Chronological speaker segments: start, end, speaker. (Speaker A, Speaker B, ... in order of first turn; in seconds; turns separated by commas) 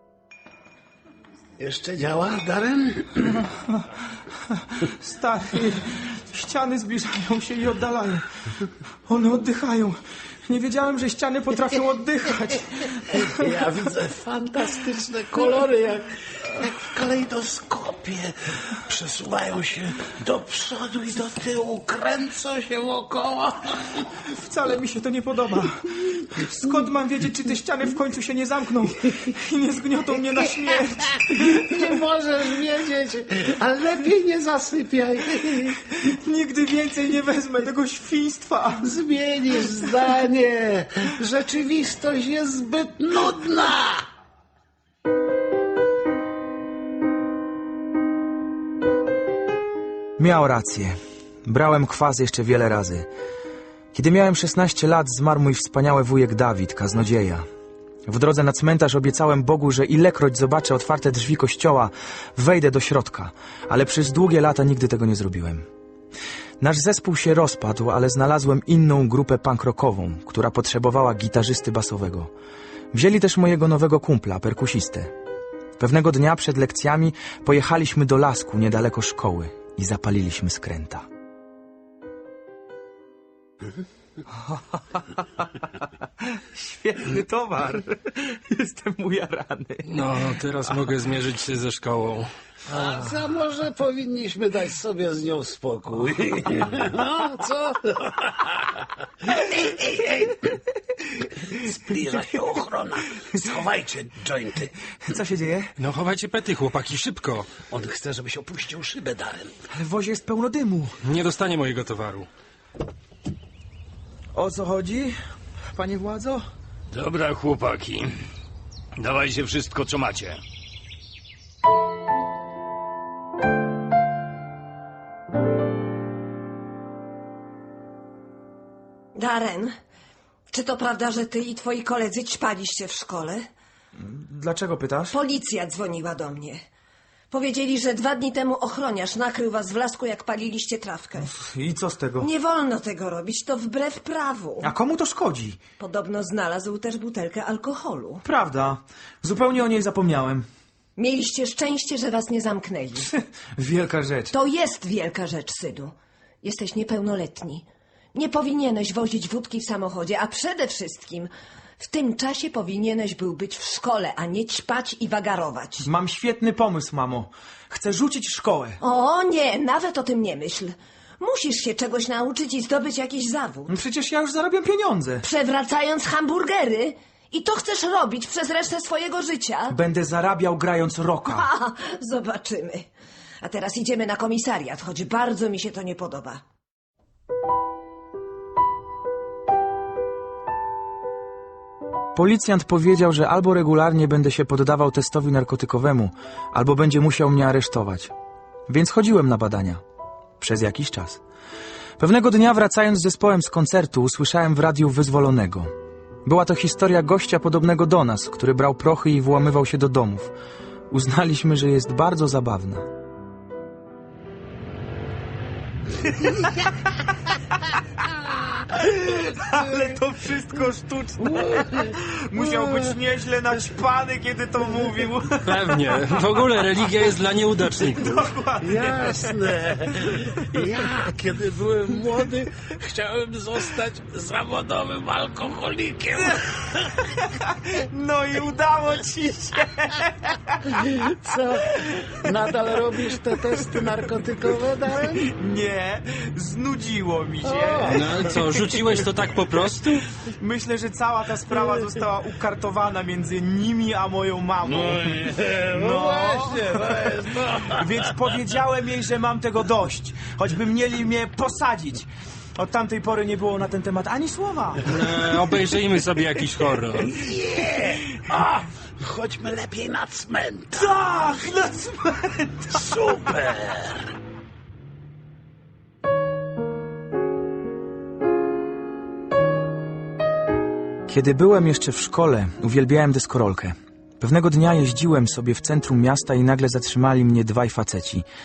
Speaker A: 1.6-3.4, Speaker B: 4.5-13.7, Speaker A: 13.1-24.0, Speaker B: 24.2-31.8, Speaker A: 31.3-35.8, Speaker B: 35.9-38.9, Speaker A: 38.8-44.1, Speaker B: 50.2-53.1, Speaker B: 53.9-57.5, Speaker B: 58.1-65.7, Speaker B: 66.6-72.3, Speaker B: 72.9-75.1, Speaker B: 75.8-81.1, Speaker B: 86.2-89.9, Speaker C: 89.8-92.3, Speaker A: 92.7-98.7, Speaker A: 99.2-100.5, Speaker A: 101.2-104.8, Speaker B: 105.0-105.7, Speaker C: 105.8-107.5, Speaker A: 107.7-109.5, Speaker B: 109.7-111.0, Speaker C: 111.0-112.3, Speaker B: 114.3-115.2, Speaker B: 115.7-116.5, Speaker D: 116.9-118.1, Speaker D: 119.0-120.4, Speaker E: 129.2-129.7, Speaker E: 130.5-133.5, Speaker B: 134.0-135.2, Speaker E: 135.1-136.6, Speaker E: 137.3-141.3, Speaker B: 141.2-142.3, Speaker E: 142.2-144.7, Speaker B: 144.6-145.6, Speaker E: 145.8-148.2, Speaker B: 148.2-150.5, Speaker E: 151.0-153.1, Speaker B: 153.1-154.4, Speaker E: 154.3-165.9, Speaker B: 165.8-168.8, Speaker E: 168.8-173.7, Speaker B: 173.7-175.3, Speaker E: 175.2-179.8, Speaker B: 179.7-181.5, Speaker E: 181.3-182.9, Speaker E: 183.4-186.4, Speaker B: 192.1-198.1, Speaker B: 198.7-199.8, Speaker B: 200.4-201.2, Speaker B: 202.0-205.7, Speaker B: 206.2-210.3, Speaker B: 210.9-212.9, Speaker B: 216.2-216.9, Speaker B: 218.1-226.4, Speaker A: 222.4-222.8, Speaker C: 225.4-228.3, Speaker B: 228.0-229.4, Speaker A: 228.6-237.0, Speaker B: 237.2-241.1, Speaker A: 240.8-245.2, Speaker B: 241.7-243.9, Speaker B: 245.1-249.1, Speaker A: 247.4-248.2, Speaker C: 247.9-250.1, Speaker B: 250.3-257.1, Speaker A: 254.7-257.7, Speaker B: 257.7-264.9, Speaker C: 264.8-267.2, Speaker A: 267.1-270.9, Speaker B: 270.7-272.9, Speaker A: 272.8-274.1, Speaker B: 281.1-288.3